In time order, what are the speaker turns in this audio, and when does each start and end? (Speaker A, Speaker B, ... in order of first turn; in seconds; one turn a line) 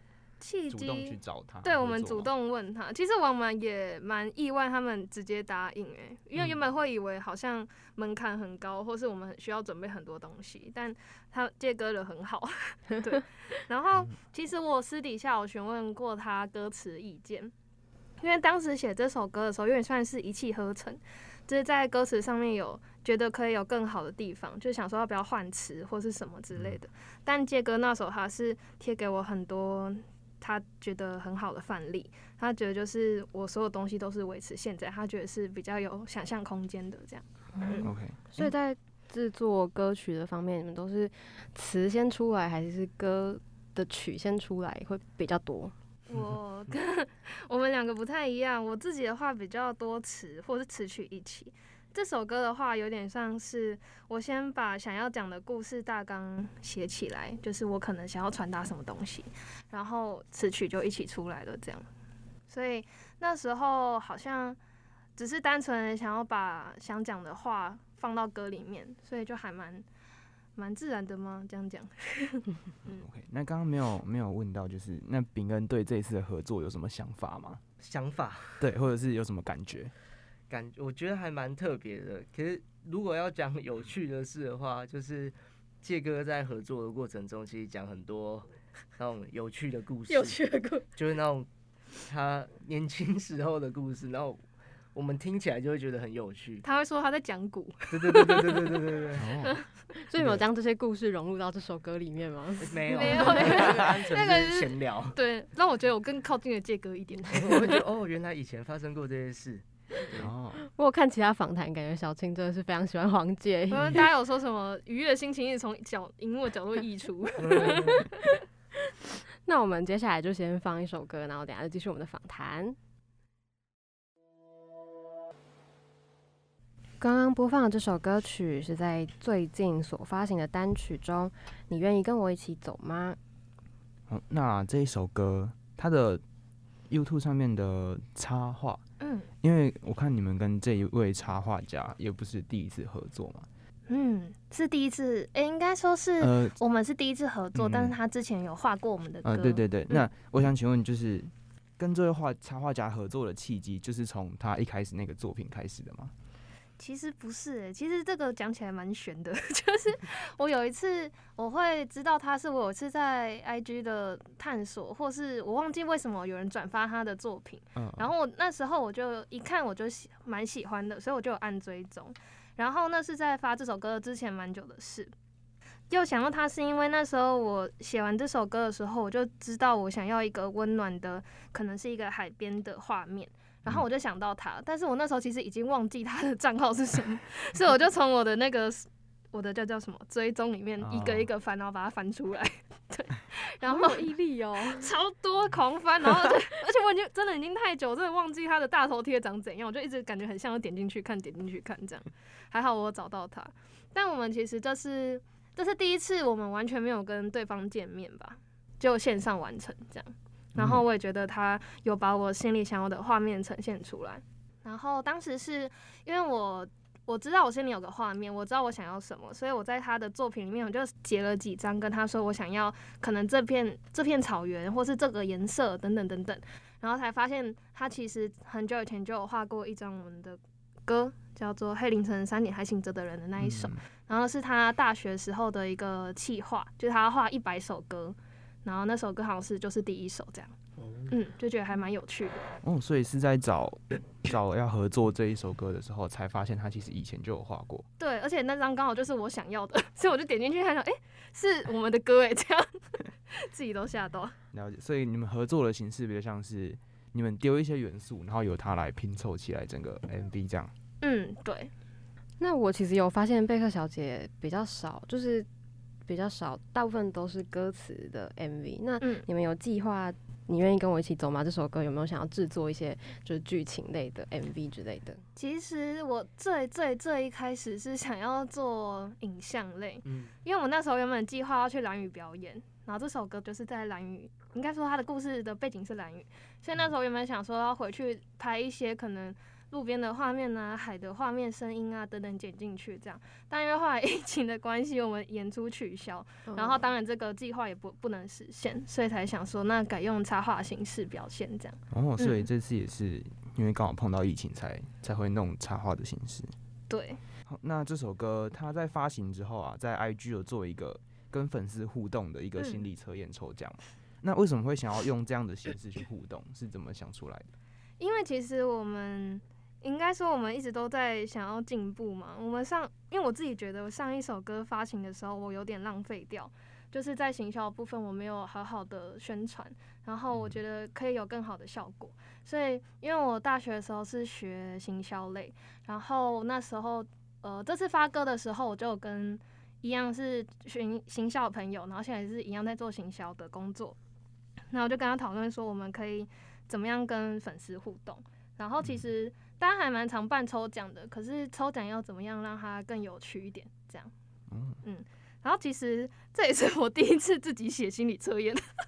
Speaker A: 0.4-17.5
Speaker B: 0.7-2.3
Speaker A: 18.2-37.9
Speaker C: 37.6-45.7
Speaker B: 37.8-38.5
Speaker A: 46.1-61.9
Speaker A: 62.5-64.6
Speaker A: 65.2-69.8
Speaker A: 70.5-73.0
Speaker B: 73.0-77.6
Speaker D: 77.8-78.6
Speaker B: 78.6-79.9
Speaker D: 80.5-90.4
Speaker A: 90.1-90.8
Speaker D: 90.9-91.5
Speaker D: 92.0-94.4
Speaker D: 94.9-96.6
Speaker A: 96.6-99.6
Speaker D: 97.9-99.4
Speaker B: 99.2-99.6
Speaker C: 100.1-103.7
Speaker D: 102.6-105.2
Speaker A: 102.9-107.8
Speaker D: 107.3-110.3
Speaker B: 110.1-110.6
Speaker C: 110.7-114.0
Speaker A: 113.7-118.3
Speaker D: 117.4-118.1
Speaker C: 119.5-122.8
Speaker C: 127.0-133.2
Speaker B: 134.1-136.2
Speaker B: 136.9-138.8
Speaker A: 139.0-139.3
Speaker B: 139.4-143.5
Speaker A: 143.9-150.1
Speaker B: 146.2-146.5
Speaker B: 147.5-147.9
Speaker B: 149.2-156.1
Speaker A: 156.8-175.1
Speaker B: 167.8-168.1
Speaker A: 175.9-194.1
Speaker B: 190.8-191.3
Speaker C: 193.7-194.9
Speaker A: 194.7-240.5
Speaker B: 210.6-210.8
Speaker B: 233.4-233.8
Speaker A: 241.1-242.4
Speaker B: 242.6-247.8
Speaker A: 248.0-254.3
Speaker B: 254.5-260.7
Speaker A: 261.0-261.7
Speaker C: 262.4-265.5
Speaker C: 266.1-275.2
Speaker A: 269.0-269.2
Speaker A: 275.4-302.5
Speaker D: 280.1-280.3
Speaker C: 296.5-296.8
Speaker B: 301.9-306.5
Speaker A: 306.9-307.2
Speaker B: 307.5-317.5
Speaker A: 312.6-312.8
Speaker A: 318.0-344.0
Speaker B: 330.3-330.6
Speaker A: 344.7-354.1
Speaker B: 354.5-354.8
Speaker A: 354.8-358.6